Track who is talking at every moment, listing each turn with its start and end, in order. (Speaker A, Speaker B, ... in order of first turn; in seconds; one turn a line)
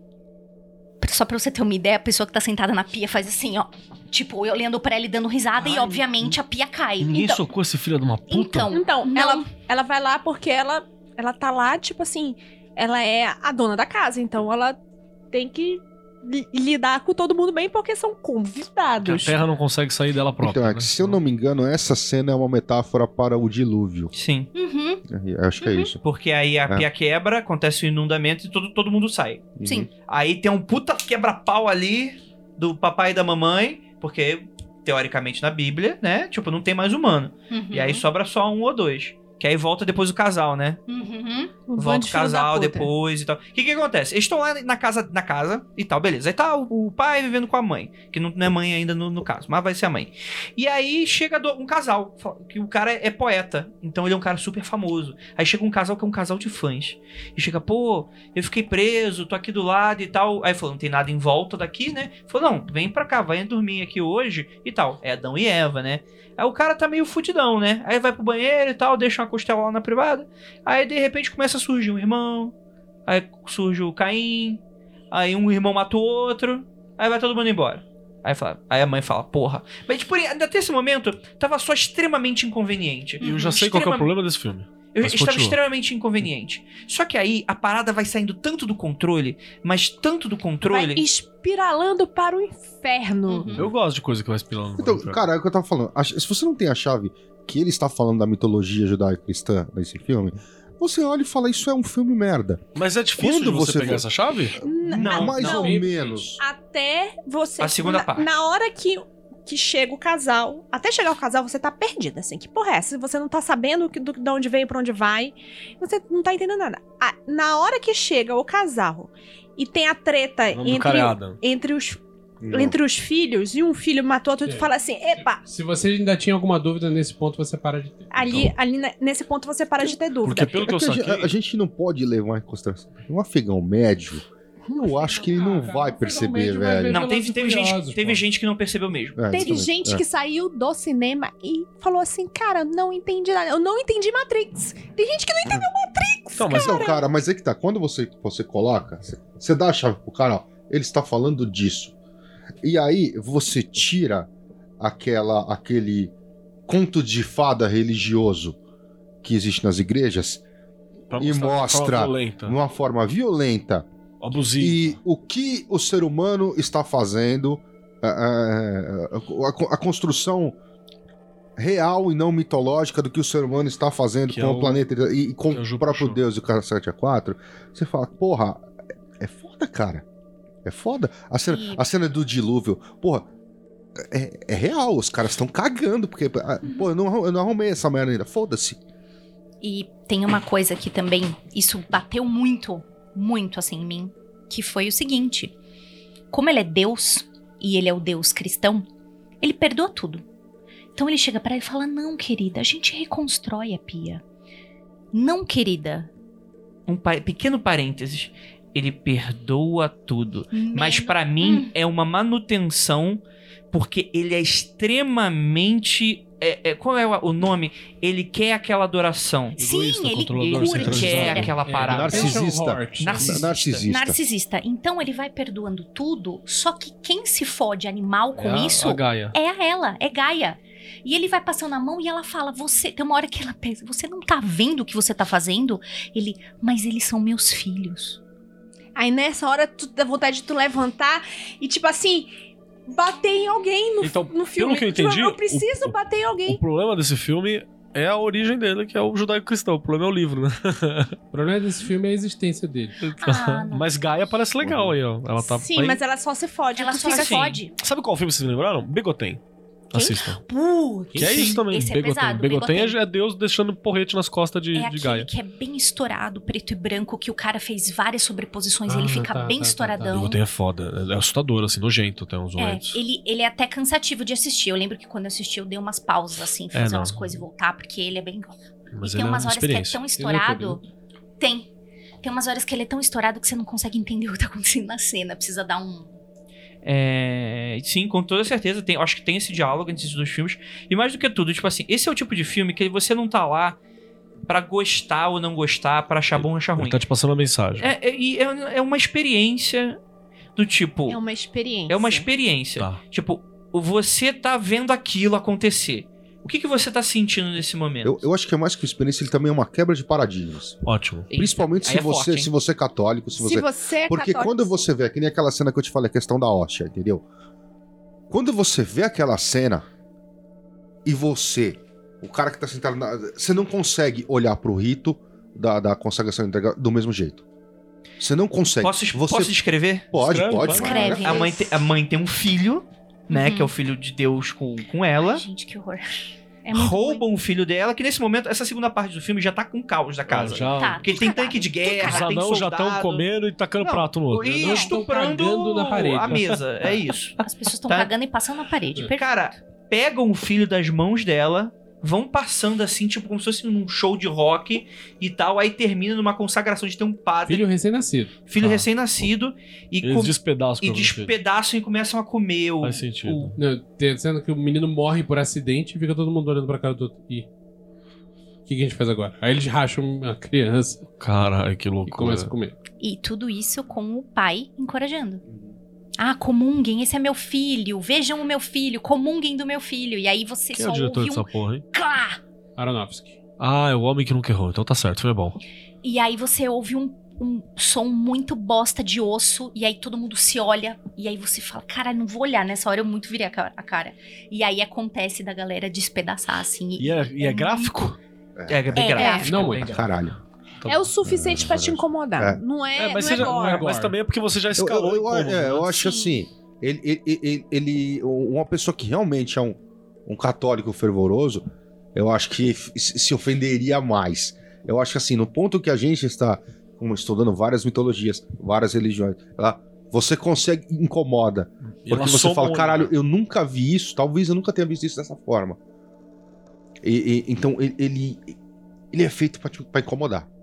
Speaker A: 1.0-7.5
Speaker B: 5.6-6.3
Speaker B: 7.0-8.7
Speaker A: 8.3-9.5
Speaker C: 8.7-14.8
Speaker C: 15.3-19.4
Speaker B: 19.0-21.2
Speaker D: 20.4-24.1
Speaker E: 24.1-24.5
Speaker A: 24.5-25.0
Speaker D: 25.1-26.0
Speaker A: 25.6-25.9
Speaker E: 26.0-29.5
Speaker D: 29.6-29.9
Speaker A: 29.6-29.9
Speaker E: 30.1-40.8
Speaker A: 37.5-38.0
Speaker A: 40.9-41.6
Speaker C: 41.7-42.9
Speaker E: 41.8-72.5
Speaker E: 73.1-84.1
Speaker A: 83.2-83.6
Speaker B: 83.2-85.6
Speaker E: 84.9-91.0
Speaker C: 90.7-93.6
Speaker A: 93.3-93.7
Speaker B: 93.5-95.2
Speaker D: 94.8-102.6
Speaker B: 102.7-104.5
Speaker D: 103.2-104.0
Speaker C: 104.6-105.8
Speaker D: 104.9-106.4
Speaker E: 105.0-105.5
Speaker F: 105.0-106.2
Speaker C: 106.4-125.4
Speaker E: 107.6-108.3
Speaker B: 120.5-121.4
Speaker D: 122.4-122.8
Speaker F: 125.4-128.2
Speaker C: 128.1-130.6
Speaker B: 130.2-131.3
Speaker D: 130.6-137.0
Speaker F: 134.8-138.2
Speaker E: 136.9-139.3
Speaker D: 139.2-140.0
Speaker C: 139.3-147.0
Speaker B: 146.4-146.9
Speaker D: 146.5-151.9
Speaker D: 152.6-154.3
Speaker D: 154.8-156.1
Speaker D: 156.7-158.6
Speaker D: 159.2-160.4
Speaker B: 161.1-162.6
Speaker D: 161.1-163.9
Speaker B: 164.2-164.9
Speaker D: 164.6-170.6
Speaker D: 171.6-178.7
Speaker B: 174.3-174.8
Speaker B: 175.5-176.2
Speaker D: 179.2-180.0
Speaker D: 180.6-183.3
Speaker A: 181.5-181.8
Speaker D: 184.0-188.8
Speaker A: 189.6-195.5
Speaker A: 196.3-198.9
Speaker A: 199.4-200.2
Speaker A: 200.9-204.2
Speaker A: 205.1-206.1
Speaker E: 206.9-219.6
Speaker A: 210.5-211.7
Speaker A: 219.6-221.5
Speaker B: 219.6-221.8
Speaker E: 220.4-222.4
Speaker F: 221.6-223.5
Speaker D: 221.8-224.2
Speaker E: 223.0-223.8
Speaker A: 223.8-238.2
Speaker B: 228.4-229.3
Speaker C: 238.9-242.3
Speaker C: 242.9-246.6
Speaker B: 244.0-245.9
Speaker B: 246.4-251.1
Speaker F: 251.3-252.9
Speaker B: 253.0-256.0
Speaker A: 253.2-254.0
Speaker D: 254.6-254.9
Speaker C: 255.5-257.6
Speaker A: 256.7-257.7
Speaker E: 257.0-257.6
Speaker B: 257.8-259.4
Speaker B: 259.9-260.4
Speaker A: 259.9-263.0
Speaker F: 261.1-261.6
Speaker B: 261.1-265.3
Speaker A: 264.7-270.4
Speaker F: 268.9-270.1
Speaker B: 270.1-273.0
Speaker A: 272.6-280.8
Speaker B: 276.7-277.4
Speaker B: 278.9-280.1
Speaker F: 280.1-280.8
Speaker A: 281.4-281.7
Speaker A: 282.2-286.1
Speaker E: 286.8-293.8
Speaker E: 294.5-297.0
Speaker B: 296.3-297.9
Speaker E: 297.8-300.0
Speaker E: 300.6-301.2
Speaker C: 301.1-302.3
Speaker E: 301.9-308.2
Speaker D: 308.0-317.2
Speaker B: 310.8-311.3
Speaker E: 311.3-312.5
Speaker C: 313.4-314.5
Speaker D: 318.3-319.9
Speaker D: 321.0-327.4
Speaker D: 328.2-329.6
Speaker E: 328.8-330.1
Speaker D: 330.1-331.4
Speaker B: 330.1-331.1
Speaker A: 330.6-331.8
Speaker E: 330.8-335.4
Speaker A: 333.3-333.7
Speaker A: 335.2-337.1
Speaker C: 336.7-337.1
Speaker E: 336.7-343.2
Speaker B: 340.3-341.1
Speaker A: 340.6-342.3
Speaker B: 342.0-344.7
Speaker E: 343.8-348.1
Speaker F: 344.5-346.4
Speaker A: 347.4-349.5
Speaker E: 349.1-357.6
Speaker F: 357.5-358.5
Speaker E: 358.5-363.5
Speaker B: 358.6-358.9
Speaker B: 360.0-361.3
Speaker B: 362.8-363.6
Speaker F: 363.6-367.4
Speaker F: 368.7-371.1
Speaker B: 371.2-372.5
Speaker F: 372.0-372.7
Speaker A: 373.0-375.4
Speaker D: 375.4-375.7
Speaker A: 376.2-382.4
Speaker B: 380.7-381.8
Speaker F: 382.8-383.4
Speaker B: 383.6-385.6
Speaker A: 386.0-398.1
Speaker B: 397.0-398.2
Speaker D: 398.6-399.2
Speaker E: 398.7-400.0
Speaker A: 399.0-399.6
Speaker C: 399.1-399.5
Speaker F: 399.4-400.0
Speaker D: 399.7-400.4
Speaker C: 400.9-403.9
Speaker D: 401.2-402.6
Speaker B: 402.9-405.9
Speaker F: 403.2-404.1
Speaker D: 404.8-425.8
Speaker A: 405.9-406.4
Speaker B: 422.0-423.1
Speaker D: 427.0-428.5
Speaker D: 429.1-430.5